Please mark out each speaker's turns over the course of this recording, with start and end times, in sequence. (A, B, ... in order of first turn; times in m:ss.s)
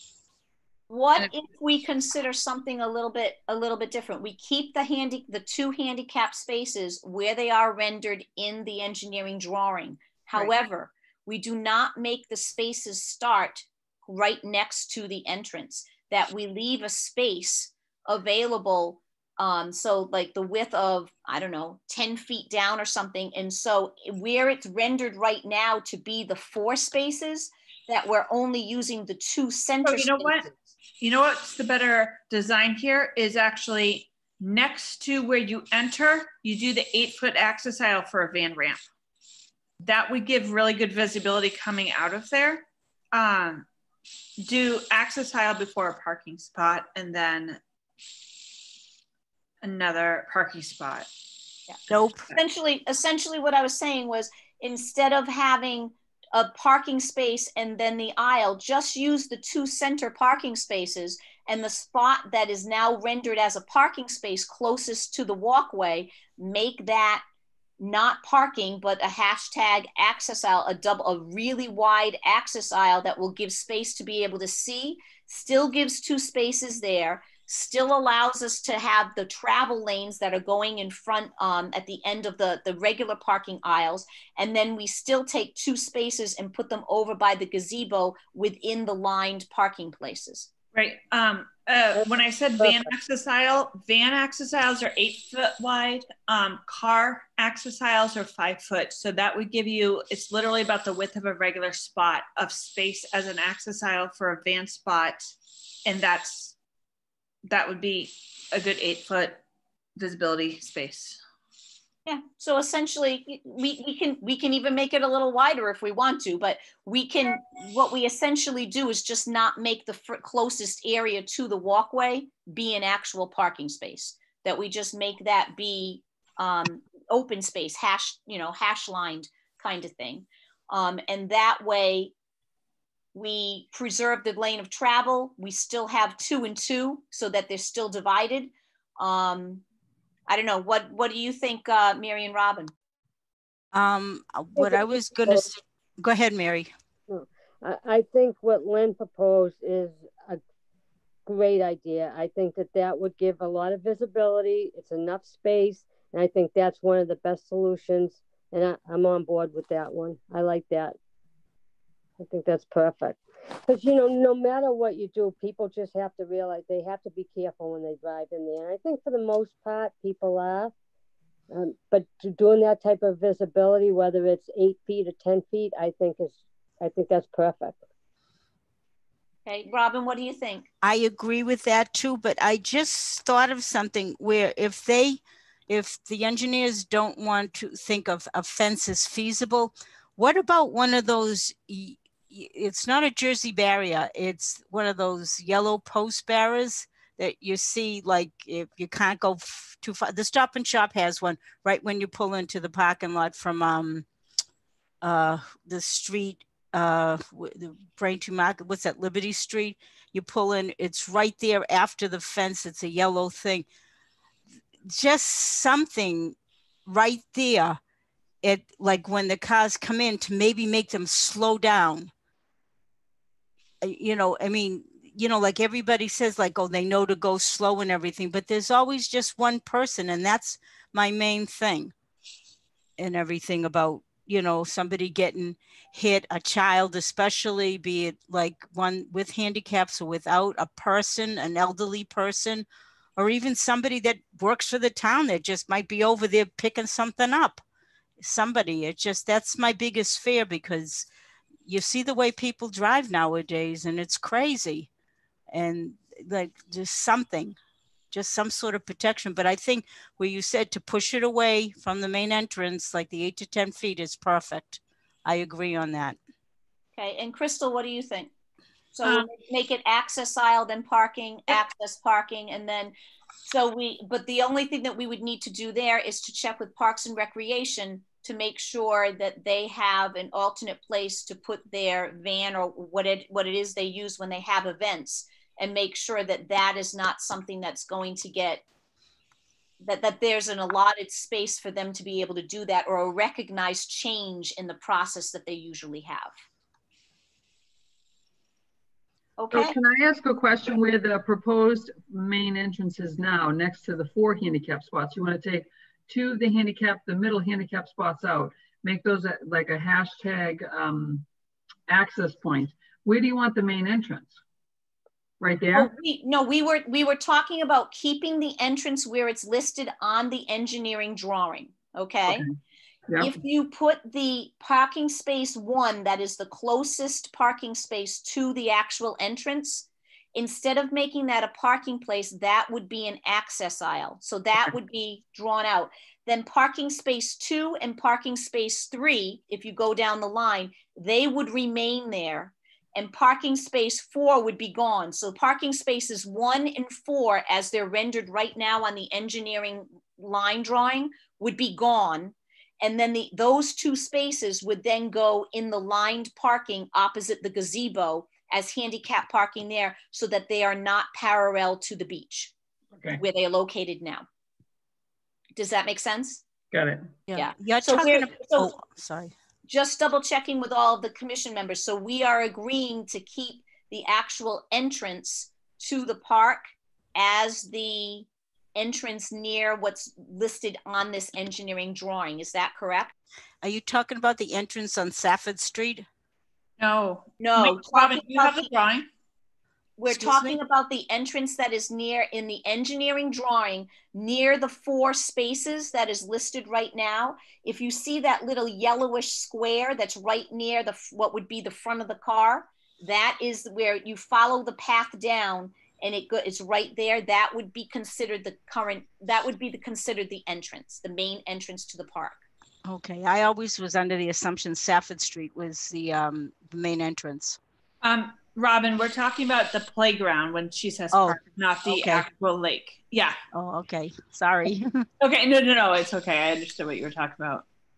0:00.9-0:30.5 A
0:29.8-0:30.5 B
0:31.0-0:38.8 B
0:39.8-0:43.6 B
0:44.4-0:47.6 B
0:49.6-0:51.1 B
0:51.9-0:52.3 C
0:52.3-1:07.2 A
1:07.8-1:30.5 A
1:30.7-1:46.6 B
1:32.6-1:32.9 D
1:47.5-1:49.4 B
1:50.0-1:51.2 B
1:52.0-2:12.1 A
2:13.1-2:19.6 A
2:20.3-2:22.7 A
2:23.7-2:26.7 C
2:24.6-2:25.5 D
2:27.1-2:30.4 D
2:31.2-2:41.0 D
2:42.2-2:50.7 D
2:51.5-2:57.8 D
2:59.4-3:00.7 A
3:00.8-3:24.0 C
3:25.0-3:33.7 C
3:34.8-3:37.8 C
3:38.4-3:42.1 C
3:43.8-3:51.9 C
3:53.0-4:02.6 C
4:03.2-4:07.6 C
4:08.2-4:11.1 C
4:11.6-4:14.9 C
4:15.5-4:17.6 C
4:18.1-4:26.2 C
4:27.0-4:28.3 A
4:28.9-4:48.6 A
4:49.8-4:56.3 A
4:59.4-4:59.8 A
4:59.5-5:11.2 E
5:11.9-5:14.4 E
5:15.4-5:15.9 E
5:15.7-5:22.4 A
5:22.3-5:22.5 E
5:23.1-5:23.4 E
5:23.2-6:02.5 A
6:02.9-6:03.2 E
6:03.2-6:04.2 A
6:05.6-6:06.4 A
6:06.7-6:07.1 E
6:07.3-6:09.3 C
6:07.3-6:08.7 A
6:09.7-6:23.1 A
6:23.6-6:26.0 C
6:26.8-6:29.1 B
6:27.4-6:28.7 A
6:30.0-6:52.4 A
6:30.1-6:30.6 C
6:52.8-6:57.6 C
6:58.0-7:03.4 B
7:01.1-7:02.2 C
7:03.5-7:05.1 C
7:05.2-7:07.6 B